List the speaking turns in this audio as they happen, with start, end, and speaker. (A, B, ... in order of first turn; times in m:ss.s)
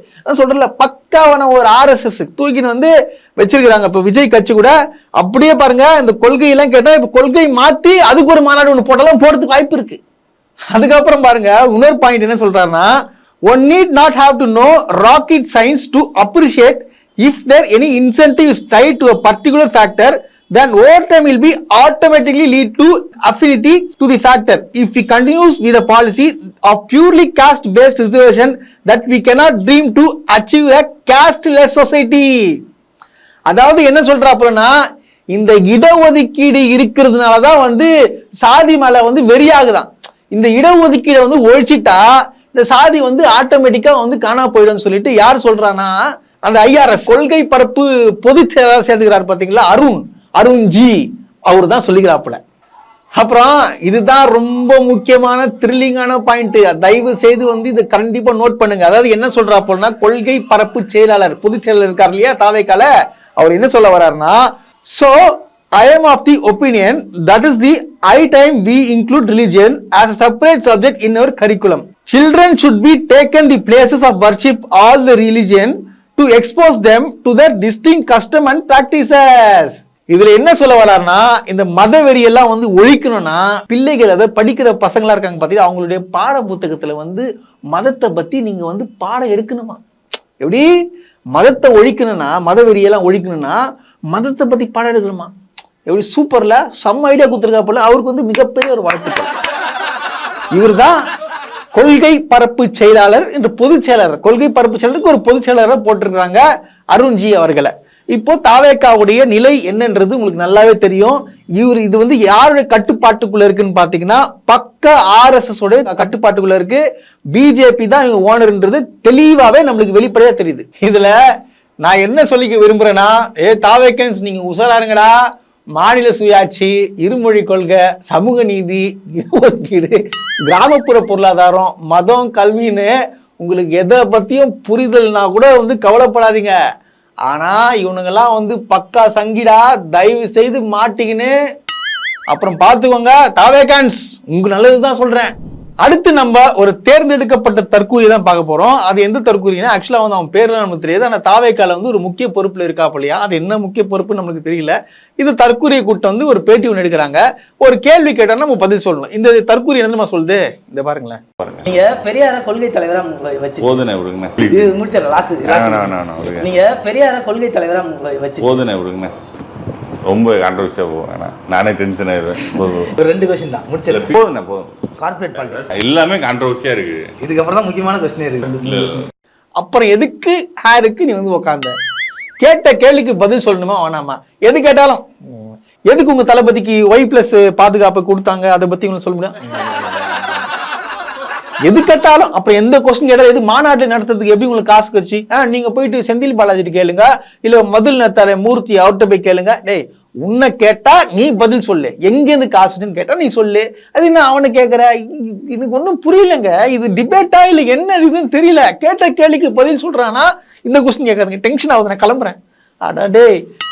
0:00.3-0:10.0 A
0:10.7-0:12.9 A
0:13.5-0:32.3 A
0:33.5-0:34.7 A
0:35.3-0:37.9 A
0:38.4-0:52.4 A
0:53.2-1:04.4 A
1:04.9-1:05.2 A
1:05.8-1:29.8 A
1:30.4-1:30.7 A
1:31.4-1:33.6 A
1:34.1-1:35.3 A
1:35.9-1:39.3 A
1:40.5-1:41.0 A
1:41.7-1:56.8 A
1:57.3-2:01.2 A
2:01.8-2:05.1 A
2:05.8-2:16.5 A
2:17.3-2:21.3 A
2:22.3-2:25.3 A
2:25.8-2:41.2 A
2:41.4-2:41.7 B
2:41.6-2:43.8 C
2:43.6-2:44.8 B
2:44.5-2:48.6 C
2:45.4-2:46.5 B
2:48.4-2:49.1 B
2:50.1-2:52.9 B
2:52.7-2:54.1 C
2:53.9-2:54.7 B
2:55.0-2:55.7 C
2:55.3-2:57.1 B
2:57.2-2:58.9 C
2:58.6-2:59.1 B
2:59.6-3:01.7 A
3:02.4-3:10.2 A
3:11.6-3:33.3 A